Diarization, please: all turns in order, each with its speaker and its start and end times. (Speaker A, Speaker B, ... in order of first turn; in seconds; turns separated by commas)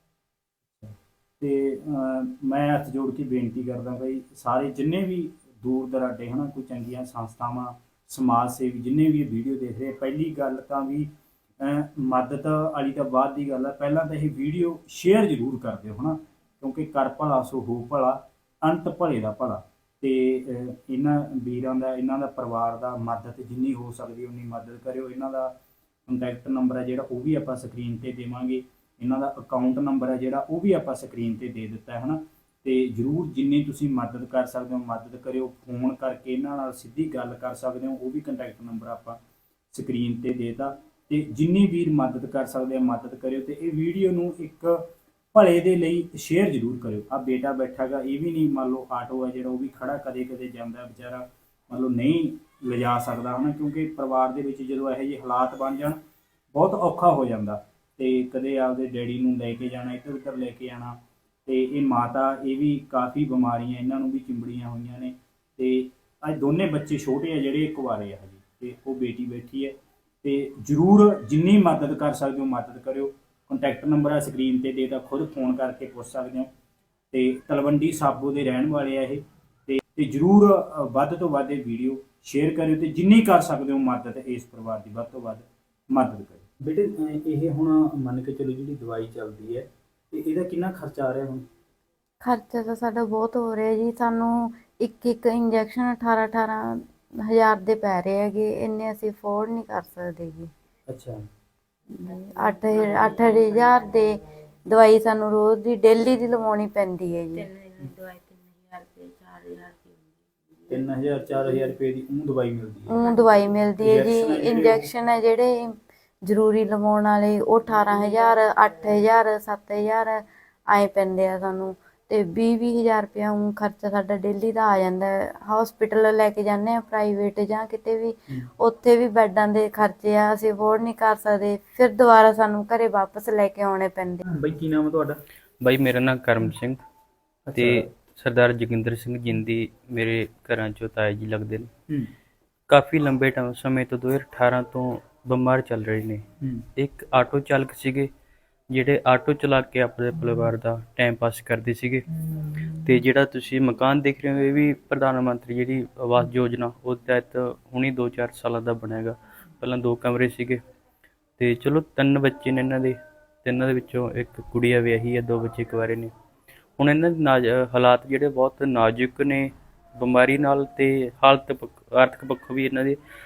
Speaker A: 0.7-11.1, Speaker A: 11.6-25.5, Speaker A: 26.1-39.2, Speaker A: 39.7-56.0, Speaker A: 56.5-76.5, Speaker A: 77.1-91.5, Speaker B: 92.2-100.5, Speaker A: 100.9-101.2, Speaker B: 101.9-107.5, Speaker A: 110.7-112.9, Speaker B: 112.9-134.2, Speaker A: 113.8-114.9, Speaker A: 134.3-135.2, Speaker C: 135.6-136.8, Speaker A: 137.5-137.9, Speaker C: 137.5-141.7, Speaker C: 142.7-146.2, Speaker A: 146.4-146.7, Speaker C: 146.8-148.1, Speaker C: 148.7-152.0, Speaker C: 152.7-160.6, Speaker C: 161.4-166.1, Speaker C: 166.8-173.0